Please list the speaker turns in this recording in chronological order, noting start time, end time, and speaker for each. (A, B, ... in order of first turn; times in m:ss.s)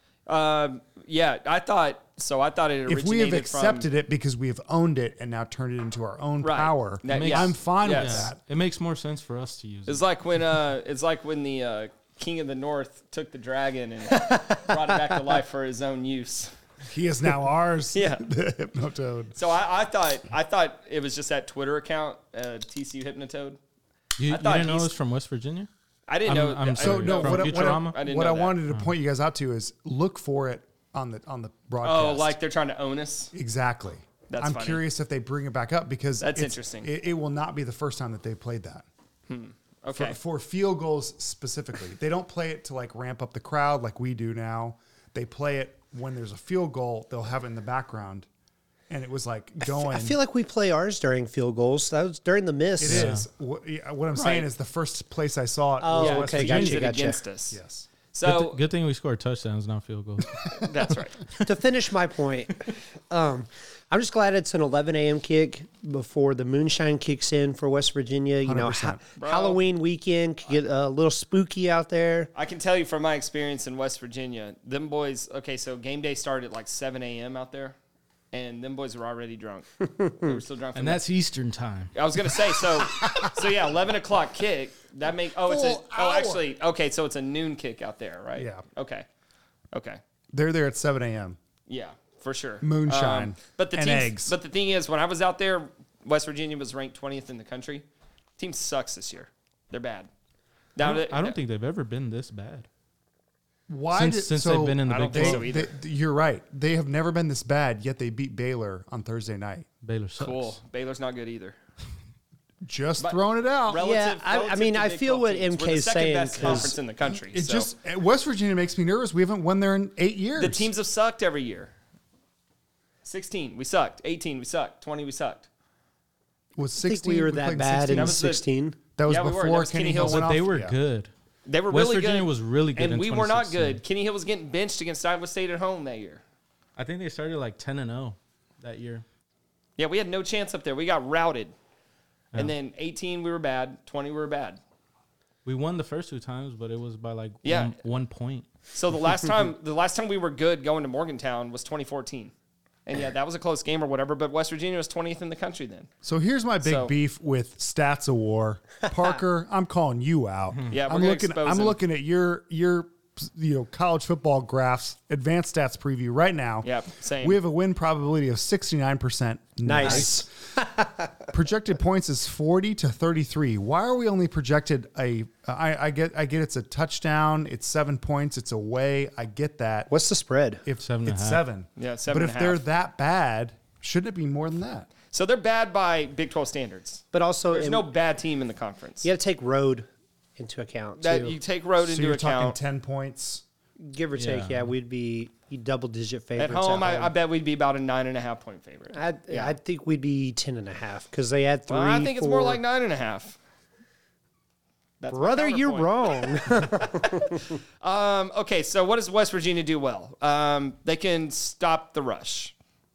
0:00.3-0:03.9 A
0:02.9-0:08.4 B
0:06.4-0:08.3 A
0:07.1-0:10.0 C
0:09.9-0:16.5 A
0:16.9-0:19.4 B
0:17.9-0:18.2 A
0:19.4-0:23.6 A
0:24.2-0:25.7 C
0:24.3-0:24.9 A
0:26.1-0:28.6 A
0:26.3-0:28.0 C
0:26.8-0:32.4 B
0:31.8-0:33.3 A
0:33.3-0:38.9 B
0:34.3-0:34.8 A
0:36.2-0:36.9 A
0:39.3-0:40.2 A
0:39.9-0:48.3 B
0:48.9-0:50.2 B
0:49.7-0:53.1 D
0:52.8-0:57.9 B
0:52.8-0:53.2 C
0:54.2-0:54.5 A
0:55.8-0:57.2 D
0:56.0-0:57.6 A
0:58.1-0:58.6 A
0:58.2-1:00.7 C
1:00.6-1:01.2 A
1:01.4-1:12.3 D
1:08.4-1:09.0 B
1:09.2-1:09.6 A
1:12.3-1:17.8 A
1:18.3-1:21.0 A
1:20.8-1:21.9 C
1:21.9-1:29.1 A
1:25.4-1:26.4 B
1:28.4-1:28.6 B
1:29.7-1:30.0 A
1:30.3-1:31.4 B
1:31.7-1:37.9 A
1:32.6-1:34.4 B
1:38.4-1:40.1 A
1:40.8-1:41.4 A
1:40.8-1:42.7 C
1:43.7-1:49.7 B
1:43.9-1:45.5 C
1:44.9-1:45.7 A
1:49.8-1:50.6 C
1:50.2-1:51.6 A
1:52.6-1:53.8 B
1:53.0-1:57.7 A
1:53.8-1:56.8 D
1:56.4-2:00.7 B
2:00.4-2:01.7 A
2:03.0-2:05.5 A
2:06.6-2:08.2 B
2:06.8-2:08.8 D
2:07.9-2:08.4 A
2:09.0-2:10.8 B
2:09.1-2:10.3 A
2:10.0-2:11.1 C
2:11.5-2:16.2 A
2:11.7-2:13.8 C
2:16.8-2:19.0 C
2:19.8-2:21.5 A
2:22.4-2:24.6 A
2:25.4-2:28.5 C
2:27.4-2:27.8 A
2:28.7-2:32.3 A
2:32.9-2:35.9 A
2:36.0-2:50.3 B
2:36.6-2:36.9 A
2:40.7-2:41.8 A
2:46.6-2:47.4 A
2:49.6-2:51.1 D
2:49.8-2:50.1 C
2:51.3-2:59.9 B
2:59.9-3:00.6 D
3:00.6-3:04.9 B
3:00.8-3:01.4 C
3:01.8-3:02.6 A
3:05.1-3:09.1 A
3:07.1-3:07.9 D
3:09.0-3:11.4 D
3:11.0-3:12.6 A
3:11.8-3:13.4 B
3:13.8-3:17.1 D
3:14.2-3:14.7 C
3:16.4-3:19.6 A
3:18.9-3:22.6 D
3:21.7-3:23.4 A
3:25.0-3:32.5 A
3:25.1-3:27.6 D